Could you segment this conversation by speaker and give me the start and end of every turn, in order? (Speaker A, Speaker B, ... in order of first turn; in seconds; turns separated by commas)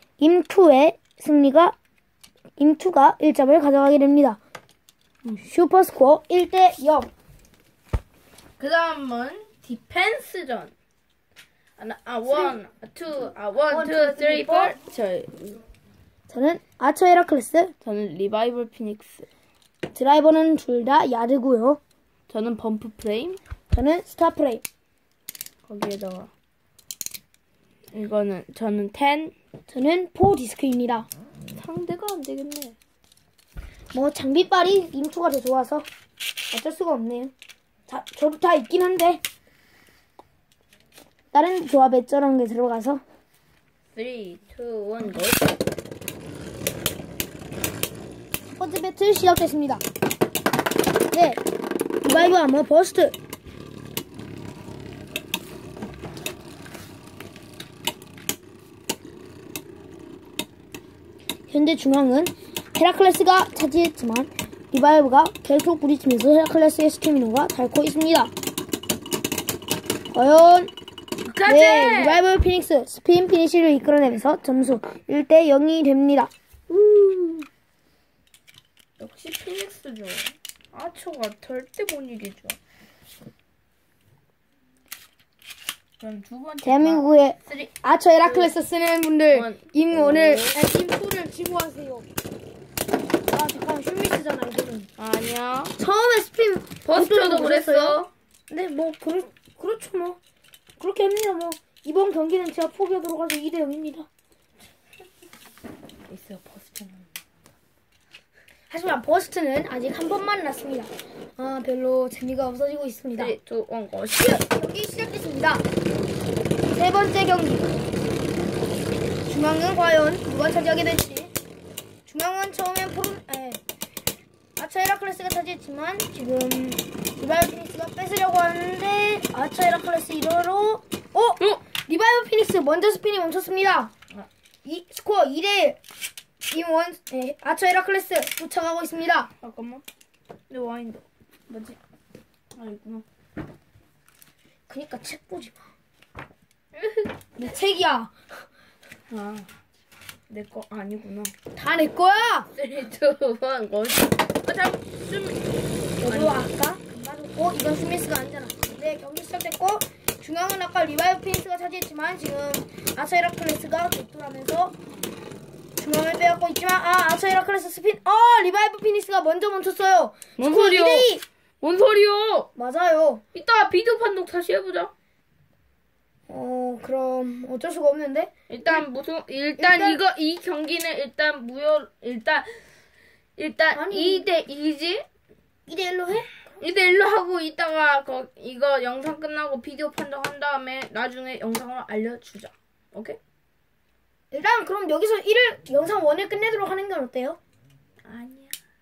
Speaker A: 0.2-1.8, Speaker A: 2.6-4.4, Speaker A: 5.2-7.1, Speaker B: 8.6-10.7, Speaker B: 11.8-15.6, Speaker A: 12.3-12.5, Speaker A: 13.7-14.8, Speaker A: 16.3-17.7, Speaker B: 17.8-19.3, Speaker A: 19.9-21.8, Speaker B: 22.3-23.4, Speaker A: 23.7-24.6, Speaker B: 25.6-26.3, Speaker B: 27.9-29.3, Speaker A: 29.7-31.1, Speaker B: 31.5-32.8, Speaker A: 33.9-35.9, Speaker A: 36.5-37.3, Speaker A: 37.9-39.2, Speaker A: 41.3-43.0, Speaker B: 43.9-45.6, Speaker A: 48.5-49.8, Speaker A: 51.1-51.4, Speaker A: 52.0-53.1, Speaker A: 61.5-68.3, Speaker A: 70.1-70.7, Speaker B: 71.2-72.2, Speaker A: 71.5-76.3, Speaker B: 76.7-77.5, Speaker B: 79.0-82.6, Speaker B: 86.0-87.7, Speaker A: 86.6-92.0, Speaker B: 88.2-88.5, Speaker B: 89.3-90.6, Speaker A: 93.3-94.9, Speaker B: 95.0-95.7, Speaker A: 95.8-100.2, Speaker B: 96.8-98.1, Speaker A: 100.8-104.1, Speaker B: 106.1-107.1, Speaker A: 108.7-113.3, Speaker B: 113.2-114.5, Speaker A: 114.5-115.6, Speaker A: 116.7-117.7, Speaker A: 119.2-121.3, Speaker A: 122.0-123.6, Speaker A: 124.6-133.9, Speaker A: 134.6-135.8, Speaker A: 136.5-139.3, Speaker B: 139.4-139.8, Speaker B: 140.5-141.8, Speaker B: 142.5-143.0, Speaker A: 144.7-145.6, Speaker B: 146.7-147.1, Speaker A: 147.3-148.1, Speaker B: 149.1-149.5, Speaker B: 150.3-151.3, Speaker A: 151.5-152.5, Speaker B: 152.5-155.5, Speaker B: 156.0-156.5, Speaker A: 156.0-164.8, Speaker A: 165.8-171.2, Speaker B: 170.4-172.5, Speaker A: 172.6-173.2, Speaker B: 173.3-174.9, Speaker A: 176.3-178.8, Speaker B: 178.5-182.6, Speaker A: 179.6-180.0, Speaker B: 183.4-185.1, Speaker A: 183.7-184.2, Speaker A: 185.7-186.4, Speaker B: 186.6-193.2, Speaker A: 194.3-197.4, Speaker B: 198.0-198.6